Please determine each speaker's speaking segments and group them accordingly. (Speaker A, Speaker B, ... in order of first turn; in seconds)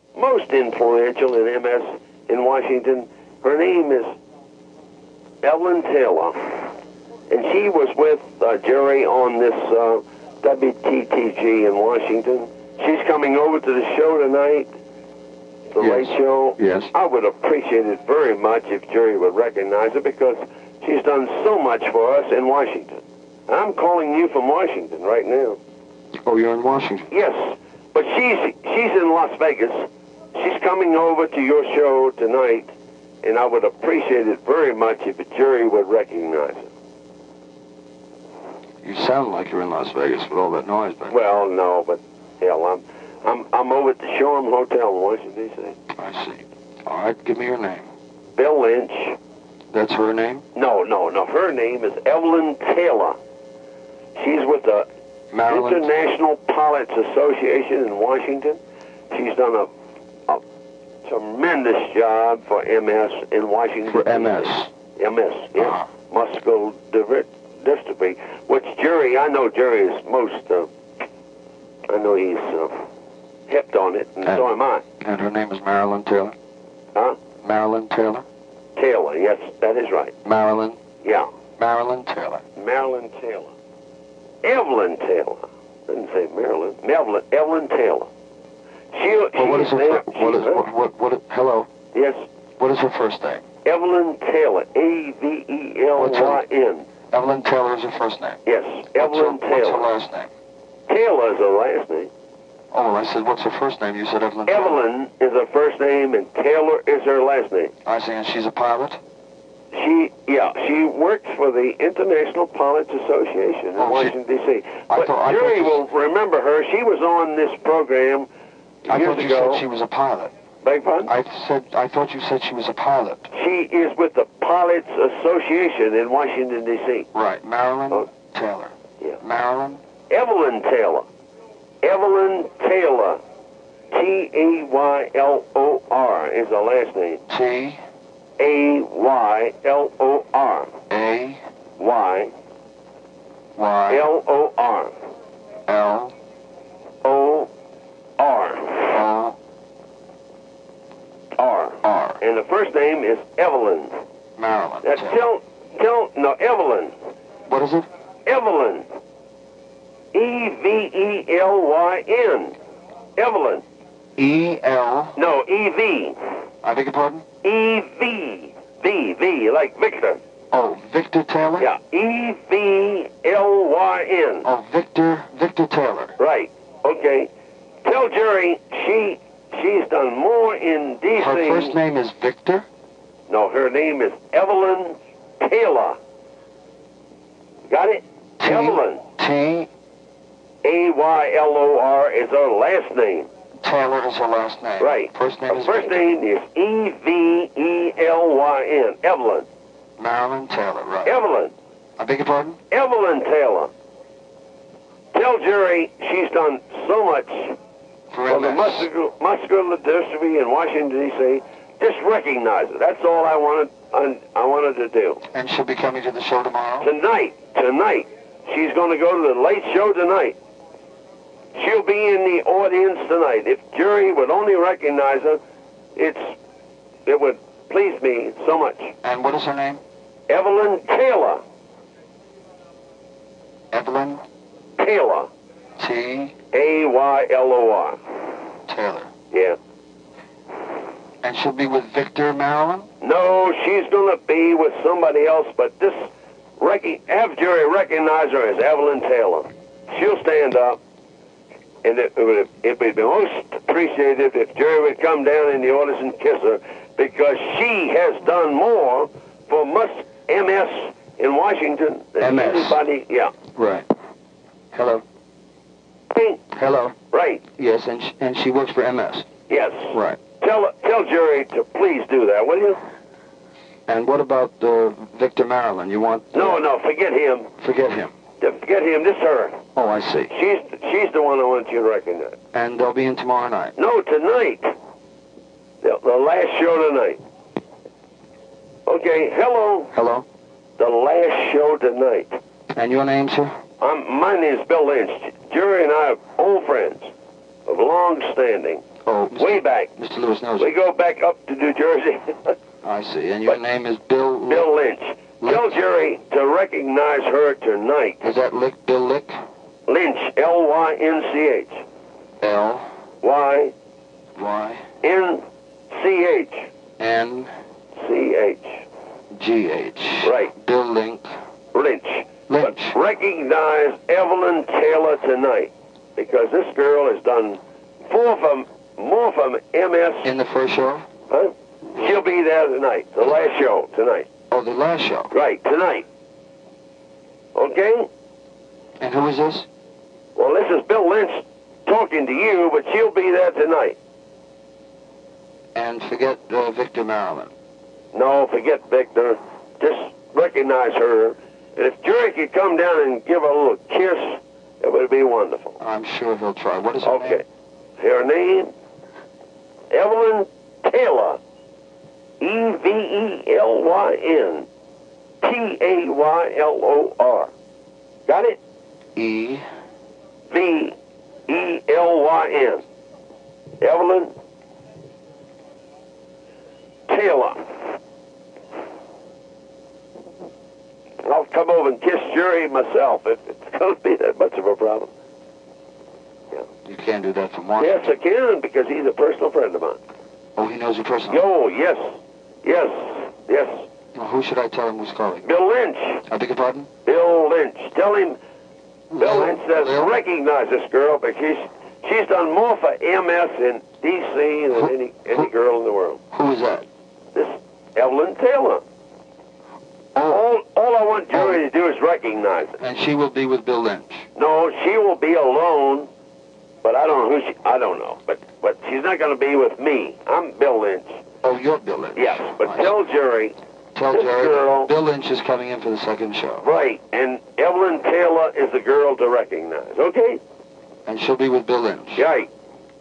Speaker A: 0.1-4.1, 5.4-6.7, 7.3-14.7, 15.7-25.6, 27.1-36.7, 41.1-45.8, 48.3-49.2, 50.5-53.1, 54.2-54.9, 55.5-58.6, 59.1-59.7, 61.0-70.7, 71.9-72.8, 73.5-74.8, 78.8-80.1, 81.0-81.3, 82.5-83.5, 84.4-88.1, 88.9-90.6, 91.9-92.3, 93.6-96.9, 98.5-99.9, 100.9-102.1, 104.5-107.7, 109.7-118.3, 118.9-119.6, 120.6-121.1, 123.3-127.1, 130.1-131.1, 131.8-133.2, 133.9-137.2, 138.4-140.7, 141.8-142.3, 143.9-144.9, 147.0-147.5, 148.2-149.0, 151.3-154.0, 154.8-156.9, 158.2-158.8, 160.1-162.6, 163.2-163.6, 165.2-166.2, 167.4-170.2, 171.6-174.5, 176.2-177.3, 177.8-181.8, 183.3-186.0, 187.7-189.0, 190.6-193.3, 194.8-199.5, 201.0-201.5, 202.7-203.7, 205.1-207.6, 208.3-215.2, 216.8-220.4, 221.5-225.4, 225.9-226.3, 227.1-228.9, 230.3-231.4, 234.8-235.3, 236.5-238.0, 239.3-239.6, 243.0-250.8, 251.8-263.3, 266.1-266.4, 267.1-267.4, 269.5-272.8, 276.3-277.5, 278.4-279.6, 280.3-282.4, 283.8-284.7, 285.8-287.2, 288.9-289.9, 290.8-292.4, 293.8-297.1, 297.6-298.8, 299.4-299.9, 300.6-302.6, 304.5-308.2, 309.9-311.8, 313.2-313.7, 315.0-316.7, 318.0-318.8, 320.2-320.5, 321.7-330.3, 331.3-334.3, 335.3-336.0, 337.5-338.1, 340.4-344.0, 348.1-355.8, 357.0-357.4, 358.0-358.7, 359.9-361.4, 362.4-364.7, 365.4-367.5, 368.3-368.6, 370.5-370.9, 371.5-372.8, 373.8-374.3, 377.1-377.7, 381.2-385.1, 387.8-390.0, 391.3-393.9, 395.4-396.2, 397.0-398.4, 399.2-406.2, 407.3-408.8, 410.3-412.8, 414.4-416.1, 416.8-421.2, 422.1-423.6, 424.1-424.9, 426.6-430.4, 432.1-432.5
Speaker B: 15.8-16.9, 26.2-27.1, 38.8-41.1, 45.9-47.9, 49.7-50.4, 55.3-55.9, 63.9-64.7, 65.6-65.9, 75.0-76.3, 77.4-78.2, 80.2-80.8, 81.6-82.4, 89.3-91.7, 92.6-93.4, 96.0-96.4, 97.1-98.4, 98.9-100.3, 102.7-104.8, 107.8-109.0, 113.8-114.1, 114.9-115.8, 118.8-120.3, 121.0-123.3, 127.1-129.8, 137.3-137.8, 140.9-141.4, 143.6-144.1, 145.7-146.1, 148.9-149.3, 151.8-152.2, 154.4-155.2, 157.4-157.9, 164.2-165.2, 166.6-167.2, 170.5-171.7, 174.4-176.1, 181.2-182.7, 188.4-189.7, 193.6-196.1, 200.0-201.2, 202.0-202.6, 208.1-208.9, 215.3-216.9, 229.0-229.8, 233.7-234.2, 235.8-236.3, 238.7-239.1, 241.2-242.9, 262.2-262.8, 263.5-263.9, 264.7-265.0, 266.5-266.9, 267.6-269.2, 269.9-270.2, 273.9-276.6, 277.6-278.1, 279.8-280.3, 282.5-283.7, 289.9-290.2, 292.7-293.5, 299.0-300.7, 302.8-304.7, 305.4-305.7, 308.2-309.3, 312.4-312.9, 314.4-314.8, 317.0-317.5, 319.3-321.3, 322.5-323.0, 330.2-331.1, 334.5-335.3, 339.0-339.7, 345.7-347.5, 355.8-357.4, 369.1-369.6, 386.8-388.1, 390.6-391.4, 394.1-395.5, 396.3-396.9, 399.1-400.2, 404.7-405.5, 406.3-406.9, 410.1-410.4, 411.3-411.6, 412.8-414.2, 421.4-422.9, 423.9-426.6, 431.1-432.2